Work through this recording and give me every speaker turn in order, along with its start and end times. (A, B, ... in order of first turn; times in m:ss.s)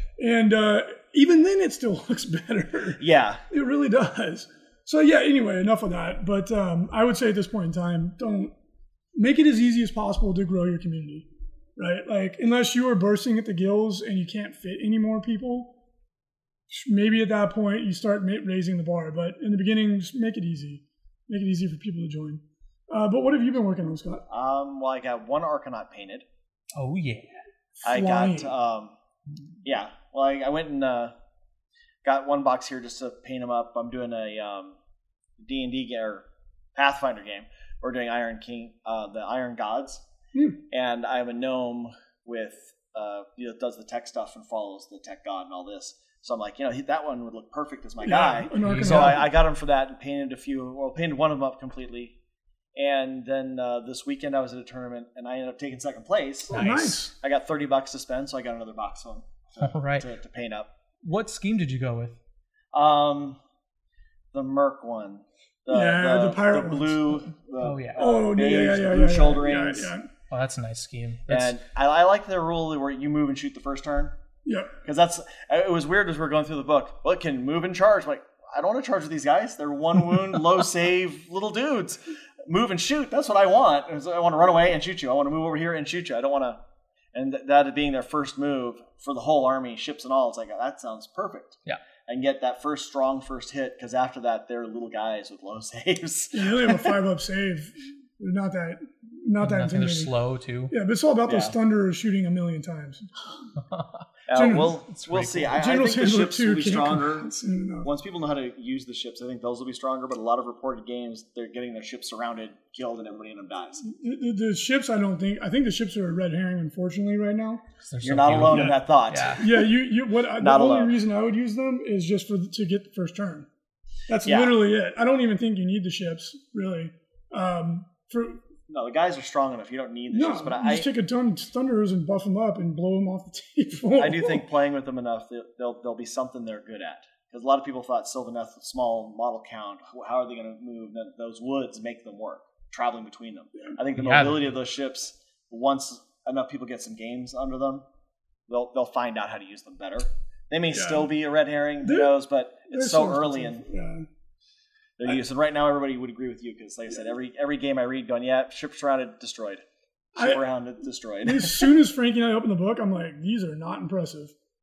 0:00.2-0:08.5 A
0:03.0-0:03.4 B
0:09.2-0:15.7 A
0:16.7-0:24.2 A
0:24.3-0:26.3 B
0:26.8-0:27.3 C
0:27.8-0:28.5 A
0:27.8-0:29.0 B
0:29.6-0:31.1 B
0:32.0-0:34.8 B
0:35.4-0:40.0 B
0:40.7-0:52.2 B
0:48.0-0:49.3 A
0:48.6-0:49.2 C
0:52.8-1:00.7 B
0:56.5-0:57.1 A
0:56.5-0:57.0 C
0:59.6-1:00.1 C
1:01.0-1:02.2 C
1:02.7-1:03.4 B
1:04.3-1:09.9 B
1:05.7-1:07.3 A
1:07.6-1:08.0 C
1:08.0-1:10.1 A
1:10.3-1:11.6 C
1:11.3-1:14.2 B
1:14.4-1:14.7 A
1:14.8-1:26.6 B
1:27.1-1:37.0 B
1:36.3-1:40.1 A
1:39.4-1:40.7 C
1:40.7-1:43.4 A
1:41.3-1:41.6 B
1:43.7-1:44.0 C
1:44.3-1:47.3 B
1:44.3-1:44.8 A
1:44.9-1:45.6 C
1:45.6-1:47.9 A
1:47.8-1:53.8 B
1:53.8-1:57.6 A
1:57.8-1:59.4 C
1:58.0-1:59.5 B
1:59.4-2:03.5 A
2:00.4-2:01.0 B
2:04.1-2:08.4 A
2:04.2-2:04.6 B
2:08.7-2:10.9 B
2:10.1-2:14.4 A
2:14.0-2:27.8 B
2:24.0-2:24.4 C
2:28.5-2:33.6 B
2:30.7-2:31.1 A
2:31.8-2:32.2 A
2:32.7-2:34.0 A
2:35.0-2:39.6 B
2:40.2-2:41.7 B
2:40.2-2:40.4 A
2:41.2-2:44.3 A